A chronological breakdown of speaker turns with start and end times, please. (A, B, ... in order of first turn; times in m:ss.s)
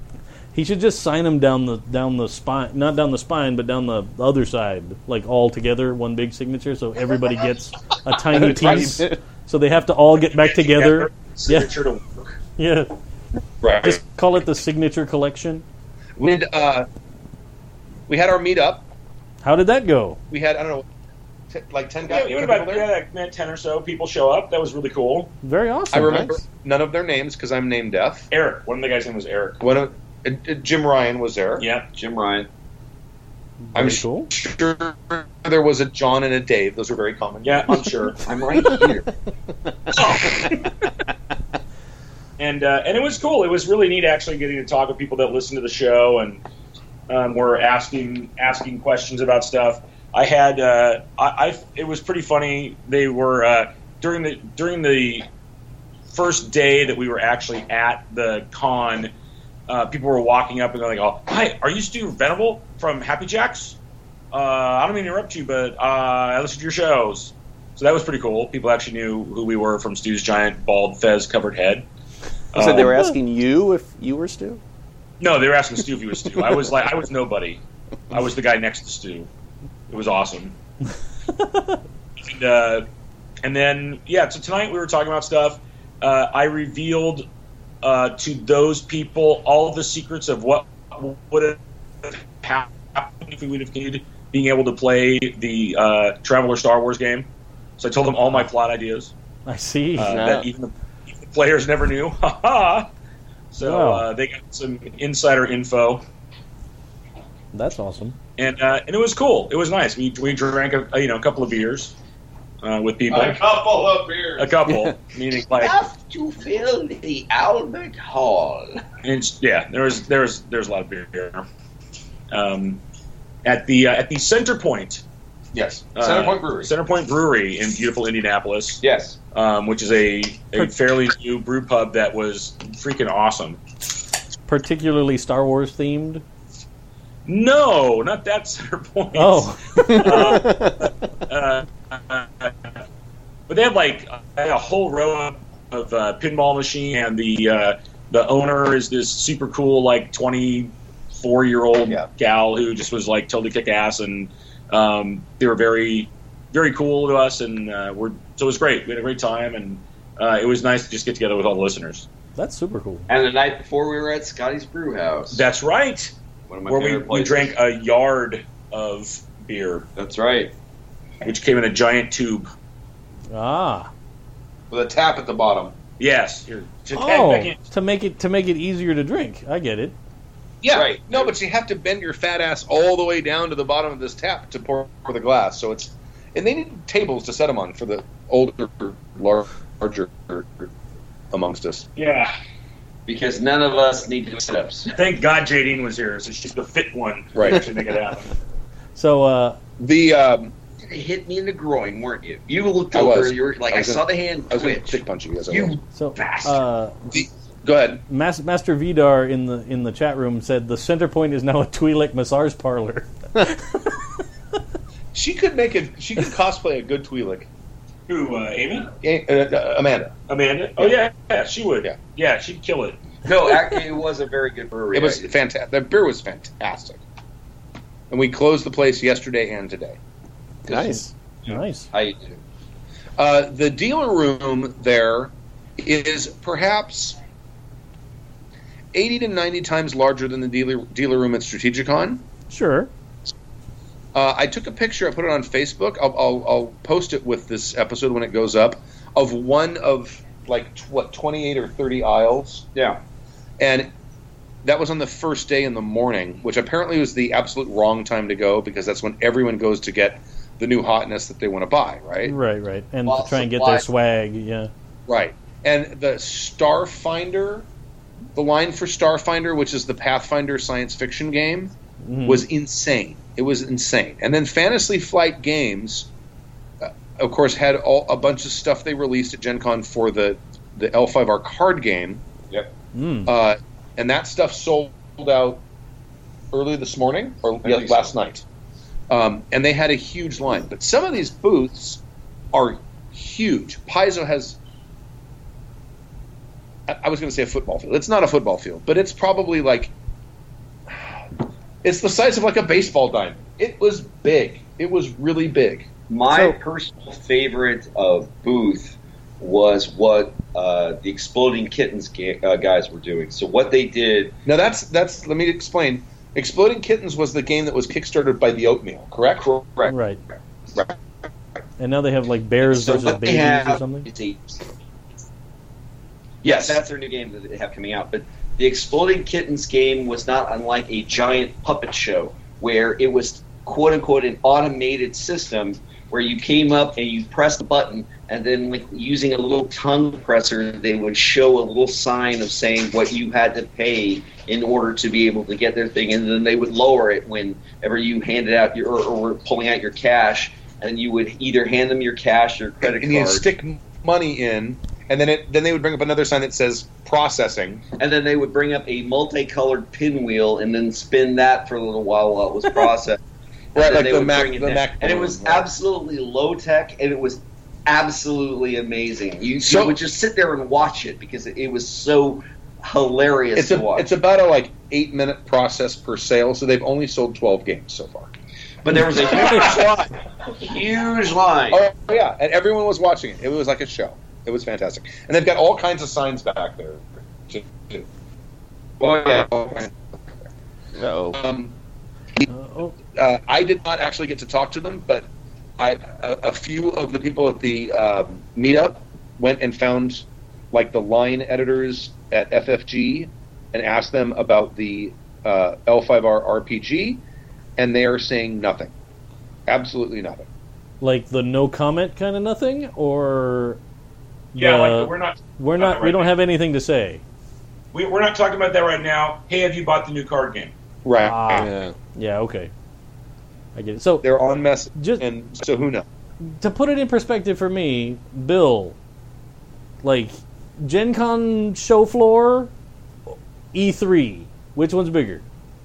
0:00.5-0:11.7 A
0:08.3-0:09.2 B
0:08.4-0:08.9 C
0:10.2-0:12.4 D
0:12.6-0:12.9 A
0:13.6-0:14.0 C
0:13.8-0:15.6 A
0:16.2-0:16.9 C
0:18.1-0:18.9 C
0:19.4-0:20.2 A
0:20.3-0:20.8 C
0:21.5-0:22.9 C
0:22.0-0:25.3 D
0:25.4-0:26.3 A
0:25.9-0:28.3 C
0:26.0-0:26.4 B
0:28.3-0:29.6 D
0:29.6-0:31.6 C
0:31.6-0:31.9 D
0:31.9-0:32.5 E
0:33.7-0:34.3 A
0:33.7-0:37.8 C
0:37.4-0:38.2 D
0:38.2-0:39.1 E
0:39.9-0:40.6 D
0:42.4-0:46.4 D
0:47.1-0:55.3 D
0:56.1-0:59.1 D
0:59.7-1:03.8 D
1:04.3-1:11.9 D
1:12.5-1:13.0 D
1:12.5-1:14.6 B
1:15.2-1:17.6 D
1:18.1-1:19.3 D
1:19.9-1:20.5 D
1:21.4-1:21.7 A
1:22.2-1:22.9 D
1:23.4-1:27.3 D
1:27.8-1:37.3 D
1:37.8-1:39.1 D
1:39.4-1:40.2 A
1:40.0-1:42.9 D
1:40.0-1:40.5 B
1:43.5-1:46.0 D
1:43.6-1:44.0 A
1:47.5-1:48.2 A
1:48.4-1:52.0 D
1:52.6-1:53.4 D
1:53.1-1:54.5 C
1:54.4-1:55.8 D
1:54.6-1:54.9 B
1:55.5-1:58.7 E
1:59.0-2:01.5 D
2:02.3-2:02.8 D
2:03.4-2:05.0 D
2:05.5-2:06.7 C
2:06.0-2:13.6 D
2:08.8-2:09.2 E
2:14.5-2:16.2 A
2:17.2-2:22.8 D
2:19.1-2:20.4 A
2:19.8-2:20.9 B
2:23.5-2:42.1 D
2:42.4-2:43.1 A
2:43.1-2:45.4 E
2:45.3-2:46.1 D
2:46.5-2:47.5 E
2:46.7-2:49.9 D
2:50.0-2:50.5 E
2:51.2-2:52.5 D
2:53.3-2:53.9 A
2:54.7-2:55.7 C
2:56.0-2:57.6 D
2:56.9-2:59.9 A
3:00.6-3:10.7 C
3:00.7-3:01.3 E
3:11.3-3:11.9 C
3:12.0-3:12.3 D
3:13.1-3:14.9 E
3:14.9-3:18.3 D
3:17.3-3:17.6 C
3:18.9-3:19.6 A
3:19.8-3:20.5 C
3:20.8-3:26.5 E
3:22.9-3:25.8 C
3:25.9-3:27.1 A
3:27.1-3:28.0 C
3:28.1-3:33.8 A
3:35.1-3:37.5 C
3:38.1-3:38.9 D
3:39.0-3:40.1 C
3:40.3-3:43.0 D
3:43.2-3:45.3 E
3:44.9-3:47.0 C
3:48.1-3:50.0 C
3:50.7-3:51.1 B
3:50.7-3:51.9 A
3:51.9-3:52.4 E
3:53.2-3:57.2 C
3:58.9-4:02.2 C
4:02.5-4:02.9 A
4:04.1-4:12.7 C
4:12.7-4:13.0 E
4:13.6-4:13.9 C
4:14.6-4:22.4 C
4:22.2-4:24.7 A
4:23.0-4:23.9 E
4:25.1-4:27.6 C
4:28.3-4:31.7 C
4:32.0-4:32.4 A
4:32.2-4:36.1 C
4:36.8-4:42.2 C
4:42.9-4:43.3 A
4:43.3-4:45.6 C
4:46.5-4:48.4 C
4:47.6-4:48.1 E
4:49.1-4:52.0 C
4:52.5-4:54.6 C
4:56.9-4:59.9 C
5:01.8-5:05.9 C
5:06.1-5:14.3 E
5:06.3-5:06.6 A
5:14.4-5:19.4 C
5:19.4-5:19.9 E
5:19.8-5:20.2 A
5:21.8-5:24.1 A
5:22.6-5:24.6 E
5:26.4-5:26.8 C
5:26.4-5:53.4 E
5:52.8-5:57.8 C
5:58.0-6:03.2 E
6:03.7-6:05.7 C
6:03.7-6:14.1 E
6:09.6-6:10.0 C
6:13.6-6:18.3 C
6:18.8-6:19.9 E
6:19.0-6:20.1 C
6:20.6-6:21.8 E
6:21.7-6:28.1 C
6:29.0-6:29.9 C
6:30.9-6:31.4 B
6:31.3-6:31.7 C
6:32.5-6:32.9 A
6:33.1-6:47.2 C
6:47.8-6:48.9 C
6:49.7-6:50.4 C
6:51.0-6:53.8 A
6:54.5-6:57.2 A
6:54.6-6:56.3 D
6:57.9-7:00.7 D
7:01.0-7:01.7 C
7:01.2-7:02.7 A
7:01.6-7:01.9 B
7:03.7-7:04.3 A
7:04.2-7:06.0 C
7:04.9-7:05.2 A
7:06.6-7:09.0 A
7:10.0-7:12.7 A
7:13.7-7:15.4 A